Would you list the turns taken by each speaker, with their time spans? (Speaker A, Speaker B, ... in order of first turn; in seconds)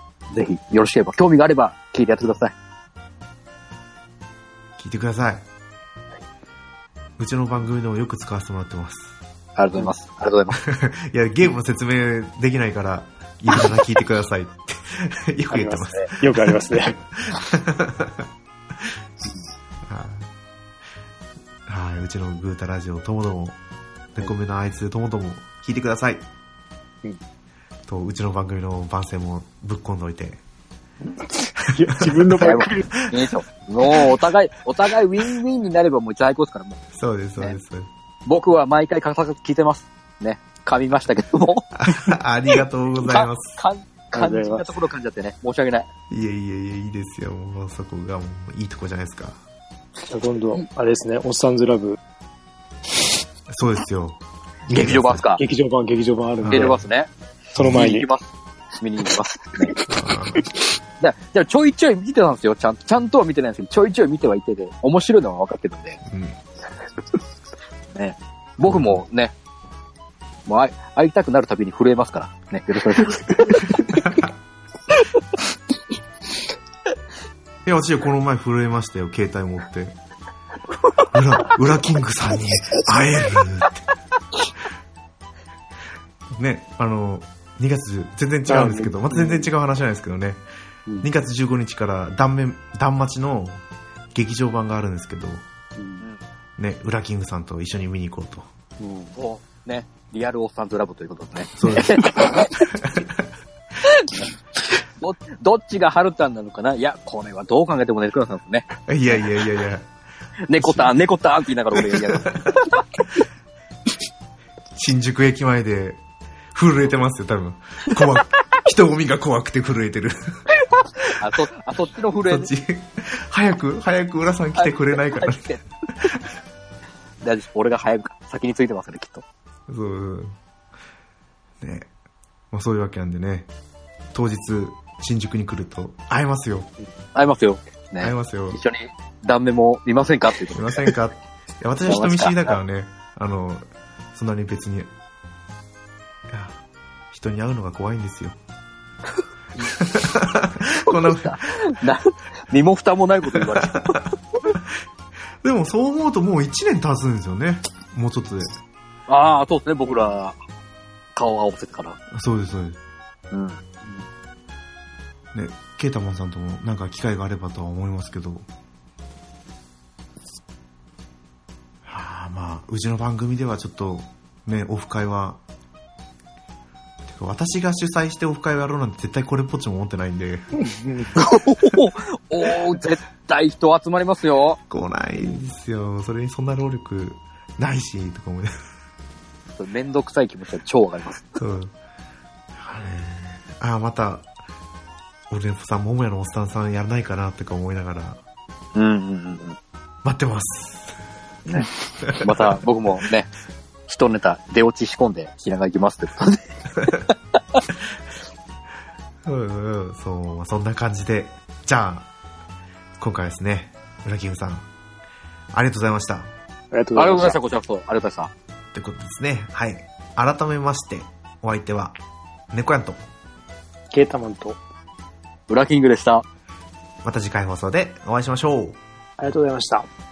Speaker A: 0.3-2.5, 9.6-10.6, 32.4-36.8, 38.3-42.2, 43.0-45.9, 54.7-55.4, 56.5-59.8, 61.0-66.0, 67.9-69.3, 70.5-73.7, 99.1-102.7, 103.8-104.2, 105.0-109.2, 110.5-113.0, 121.0-122.5, 124.6-125.6, 127.2-129.2, 137.1-140.9, 141.8-142.6, 150.8-154.0, 159.1-160.4, 161.2-162.0, 163.3-164.0, 181.2-184.6, 189.6-191.4, 198.8-199.6, 201.5-203.3, 203.9-206.6, 216.9-218.3, 225.5-226.2
Speaker B: 4.8-5.5, 7.2-9.2, 10.6-18.3, 19.9-20.3, 21.7-23.6, 24.1-26.2, 27.9-30.4, 32.0-33.0, 36.9-37.9, 41.8-43.6, 46.1-49.4, 53.5-55.2, 56.4-56.8, 57.5-57.9, 59.9-60.5, 66.1-66.4, 68.6-69.0, 77.7-80.0, 81.1-83.8, 86.3-90.4, 91.0-95.5, 96.6-98.5, 101.6-102.1, 102.8-103.2, 108.9-109.9, 110.6-110.9, 111.7-113.0, 114.8-116.0, 116.5-120.2, 122.3-126.2, 129.7-130.4, 131.6-131.9, 132.5-133.5, 134.1-136.7, 138.0-138.6, 140.5-144.9, 146.3-146.6, 147.1-148.4, 149.8-151.5, 153.3-154.1, 155.4-158.5, 162.1-162.8, 165.3-168.5, 171.9-175.4, 177.1-180.5, 184.7-188.5, 191.4-191.8, 192.6-194.3, 195.3-198.2, 200.0-201.0, 201.6-202.6, 209.2-212.1, 213.0-214.7, 215.5-216.3, 218.7-222.0, 222.5-223.0, 227.0-228.8
Speaker C: 15.5-17.0, 31.6-32.9, 44.1-44.7, 50.1-52.0, 55.4-56.8, 57.6-58.1, 59.7-60.4, 88.5-89.5, 95.8-96.0, 98.8-99.1, 180.6-181.2, 216.7-217.4, 223.9-224.6, 229.2-229.9